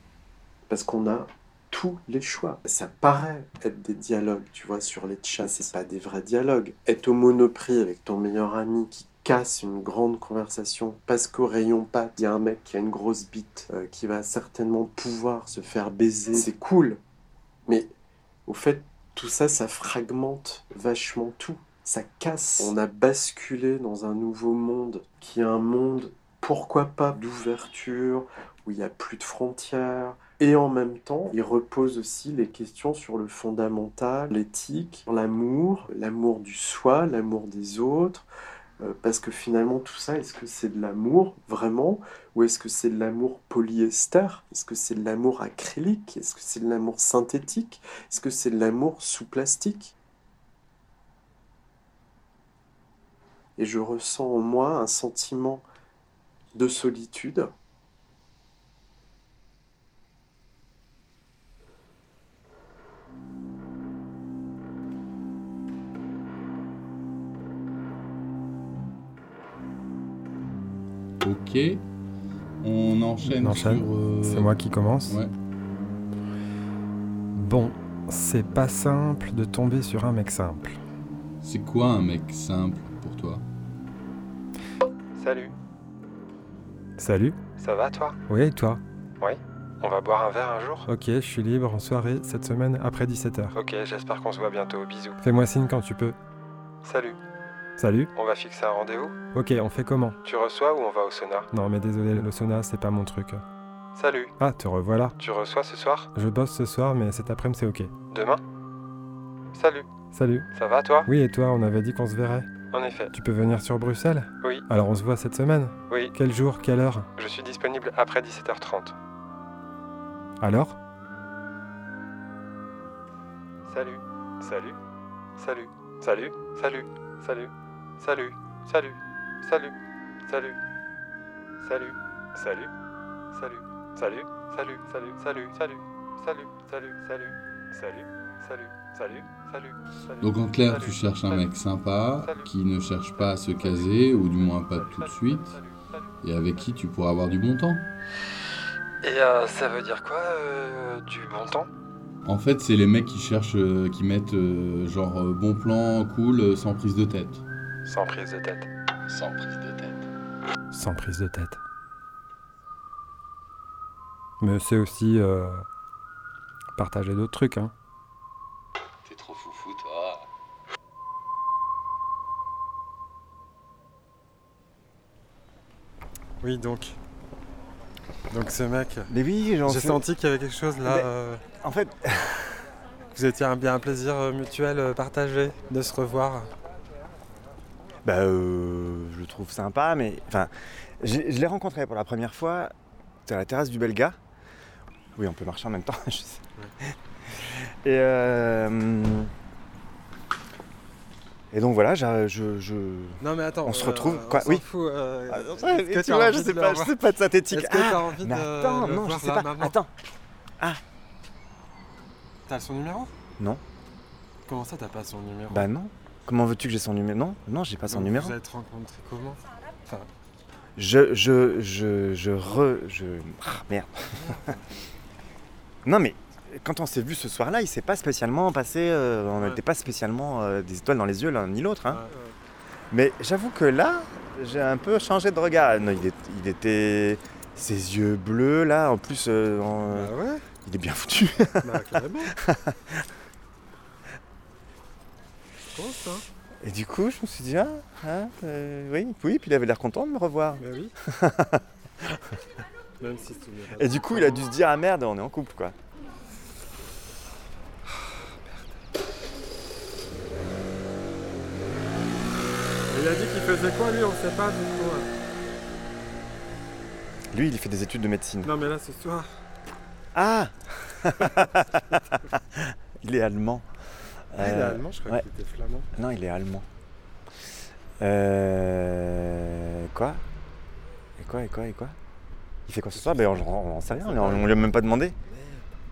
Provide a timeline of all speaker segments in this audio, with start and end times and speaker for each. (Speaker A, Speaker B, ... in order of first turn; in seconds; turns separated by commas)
Speaker A: 0.7-17.0, Speaker A: 18.5-38.2, Speaker A: 38.8-49.9, Speaker A: 53.6-55.6, Speaker A: 56.5-57.5, Speaker B: 71.2-71.8, Speaker B: 72.6-74.5, Speaker C: 73.2-75.2, Speaker C: 77.3-80.8, Speaker B: 81.4-83.4, Speaker D: 85.1-85.5, Speaker C: 87.0-87.5, Speaker D: 87.5-88.2, Speaker C: 88.3-88.8, Speaker D: 89.2-90.9, Speaker C: 90.9-93.5, Speaker D: 93.5-95.2, Speaker C: 95.2-96.2, Speaker D: 96.8-97.2, Speaker C: 97.8-98.1, Speaker D: 98.1-99.2, Speaker C: 99.3-100.2, Speaker D: 100.2-101.5, Speaker C: 101.5-103.4, Speaker D: 103.9-104.3, Speaker C: 104.4-105.2, Speaker D: 105.2-106.1, Speaker C: 106.1-107.9, Speaker D: 108.1-108.4, Speaker D: 109.5-109.9, Speaker C: 110.1-110.5, Speaker D: 110.5-111.1, Speaker C: 111.0-112.6, Speaker D: 112.7-113.1, Speaker C: 113.1-117.1, Speaker D: 117.2-118.9, Speaker C: 120.4-120.8, Speaker D: 123.7-124.8, Speaker D: 125.4-129.7, Speaker D: 130.3-130.6, Speaker D: 131.6-132.7, Speaker D: 133.3-141.5, Speaker B: 140.2-145.6, Speaker D: 142.1-142.5, Speaker D: 143.2-146.7, Speaker B: 146.2-147.8, Speaker D: 149.0-151.7, Speaker B: 152.2-157.4, Speaker D: 157.8-158.7, Speaker E: 159.1-160.1, Speaker C: 160.7-161.6, Speaker C: 164.4-165.6, Speaker C: 166.8-167.7, Speaker E: 169.0-170.3, Speaker C: 176.4-177.0, Speaker C: 178.3-179.1, Speaker F: 179.1-180.0, Speaker C: 179.6-181.4, Speaker F: 180.8-182.7, Speaker C: 183.1-186.5, Speaker F: 188.0-192.7, Speaker F: 193.2-194.2, Speaker F: 195.2-199.3, Speaker F: 201.5-204.6, Speaker C: 203.2-206.8, Speaker F: 205.3-209.9, Speaker C: 207.5-209.6, Speaker D: 209.4-209.7, Speaker C: 212.5-213.1, Speaker C: 214.5-215.6, Speaker F: 215.5-218.3, Speaker C: 217.9-220.0, Speaker F: 220.8-224.3, Speaker F: 225.8-232.0, Speaker F: 232.9-240.1, Speaker C: 239.9-240.4, Speaker F: 240.6-243.1, Speaker C: 241.6-242.0, Speaker F: 246.6-252.4, Speaker C: 250.6-250.9, Speaker C: 253.0-254.4, Speaker F: 253.8-255.8, Speaker C: 262.9-263.4, Speaker D: 263.3-265.0, Speaker F: 267.3-268.5, Speaker C: 268.4-269.2, Speaker F: 270.1-275.2, Speaker C: 274.4-275.8, Speaker F: 275.9-276.7, Speaker F: 278.0-280.2, Speaker F: 281.2-281.9, Speaker F: 282.6-285.2, Speaker C: 282.9-285.6